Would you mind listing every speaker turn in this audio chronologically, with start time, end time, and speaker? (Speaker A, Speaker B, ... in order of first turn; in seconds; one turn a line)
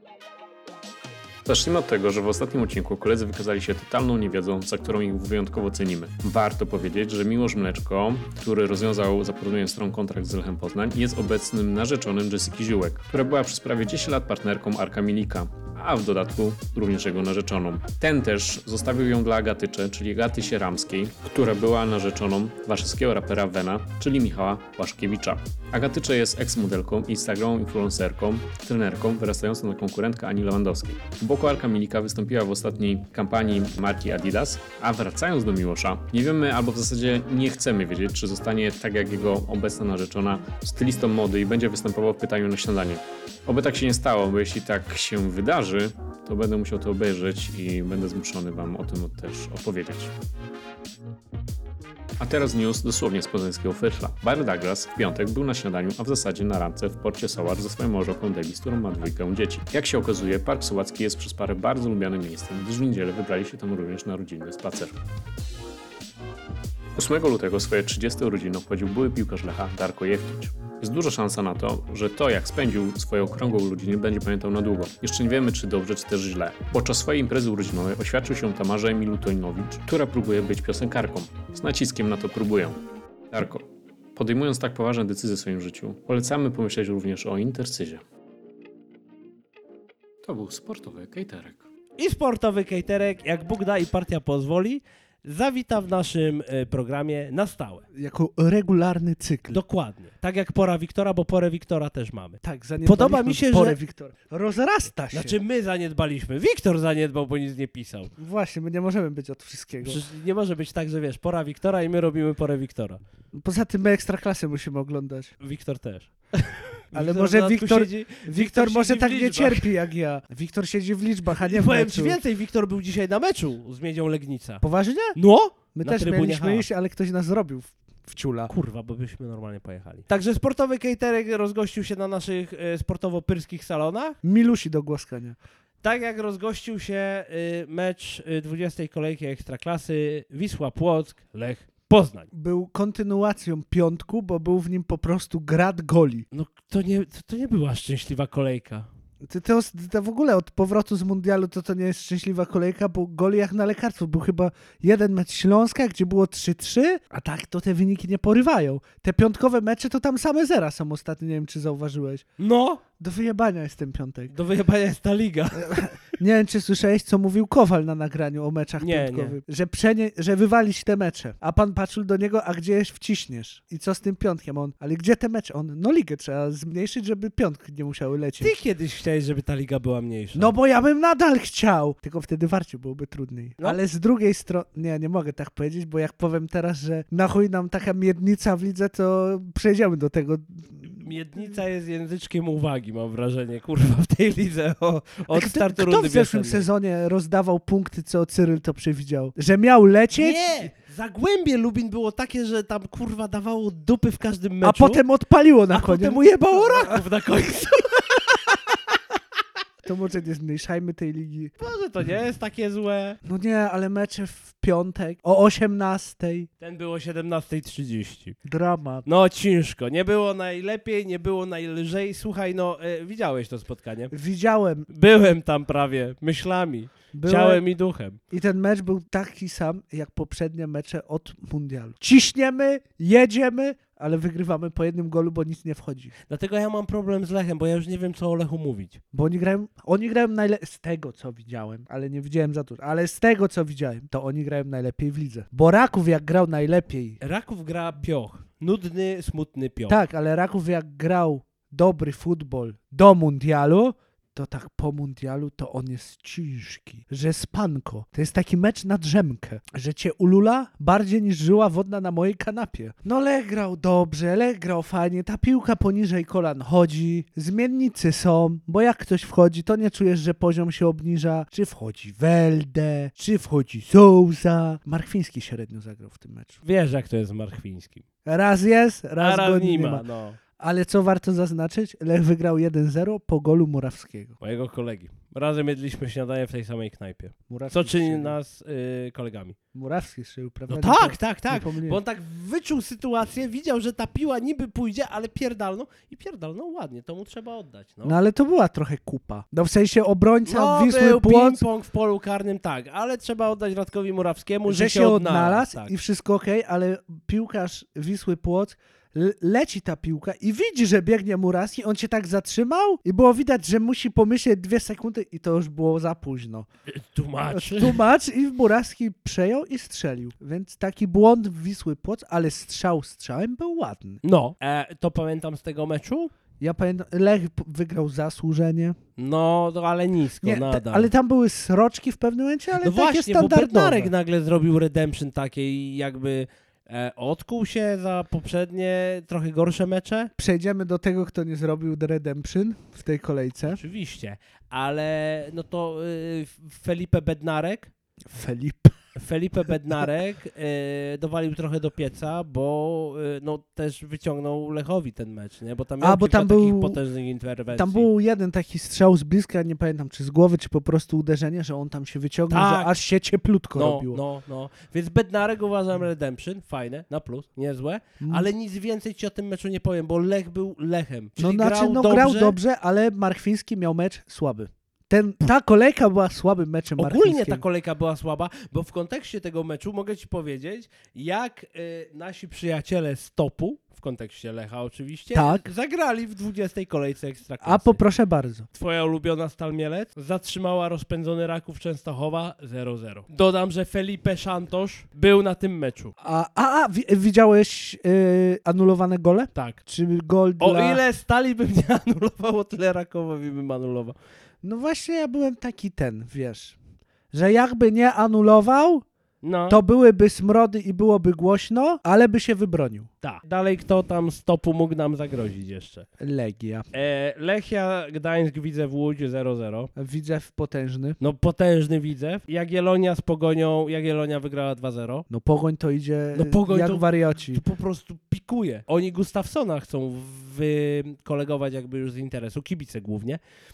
Speaker A: 1.4-50.1
Speaker A: 52.2-64.9
Speaker A: 67.0-82.8
Speaker A: 83.3-88.0
Speaker A: 90.2-91.6
Speaker B: 92.0-97.8
Speaker C: 97.9-99.6
Speaker B: 99.5-103.8
Speaker C: 102.4-105.4
Speaker B: 105.1-108.1
Speaker C: 108.2-110.0
Speaker B: 109.8-113.0
Speaker C: 113.3-115.3
Speaker B: 115.4-119.7
Speaker C: 116.9-122.2
Speaker B: 121.3-124.6
Speaker C: 124.6-125.2
Speaker B: 125.1-126.7
Speaker C: 125.7-128.5
Speaker B: 128.5-134.2
Speaker C: 134.2-135.4
Speaker B: 135.8-142.3
Speaker C: 142.3-146.2
Speaker B: 146.3-148.9
Speaker C: 149.2-162.2
Speaker B: 162.4-162.8
Speaker C: 163.0-164.3
Speaker B: 164.3-166.2
Speaker C: 165.6-178.5
Speaker B: 168.8-169.4
Speaker B: 178.4-180.5
Speaker C: 180.3-191.1
Speaker B: 190.9-196.7
Speaker C: 195.3-200.7
Speaker B: 200.1-205.0
Speaker C: 204.6-207.0
Speaker B: 205.7-208.2
Speaker C: 209.8-211.5
Speaker B: 211.6-213.2
Speaker C: 213.2-216.5
Speaker B: 216.6-218.4
Speaker C: 218.4-219.1
Speaker B: 219.0-224.1
Speaker C: 224.1-224.9
Speaker B: 224.9-228.2
Speaker C: 227.1-227.6
Speaker C: 228.3-236.1
Speaker B: 236.3-239.0
Speaker C: 239.1-247.2
Speaker B: 247.2-250.0
Speaker C: 249.9-276.6
Speaker B: 276.6-278.0
Speaker C: 278.2-280.1
Speaker B: 279.2-280.4
Speaker C: 280.6-284.4
Speaker B: 284.4-289.6
Speaker C: 287.5-288.4
Speaker C: 289.7-292.0
Speaker B: 290.7-298.1
Speaker C: 298.0-301.6
Speaker B: 300.4-305.9
Speaker C: 304.7-316.7
Speaker B: 316.9-318.0
Speaker C: 317.5-324.2
Speaker B: 324.2-326.3
Speaker C: 326.6-329.0
Speaker B: 329.2-331.1
Speaker C: 330.4-334.1
Speaker B: 332.8-340.3
Speaker C: 340.4-343.8
Speaker B: 343.7-347.9
Speaker C: 348.3-349.0
Speaker B: 349.1-358.1
Speaker C: 356.0-357.0
Speaker C: 357.7-364.2
Speaker B: 362.5-362.9
Speaker B: 363.7-372.6
Speaker C: 368.2-368.5
Speaker C: 371.4-377.6
Speaker B: 377.0-388.0
Speaker C: 385.3-385.6
Speaker C: 387.6-388.7
Speaker B: 388.7-396.1
Speaker C: 396.2-401.0
Speaker B: 399.5-399.8
Speaker B: 400.6-404.1
Speaker C: 404.6-406.8
Speaker C: 407.3-409.0
Speaker B: 409.4-409.8
Speaker C: 409.7-413.1
Speaker B: 413.2-416.1
Speaker C: 416.2-416.9
Speaker B: 416.9-419.9
Speaker C: 419.9-421.2
Speaker B: 421.2-425.2
Speaker C: 425.3-427.6
Speaker B: 426.3-433.4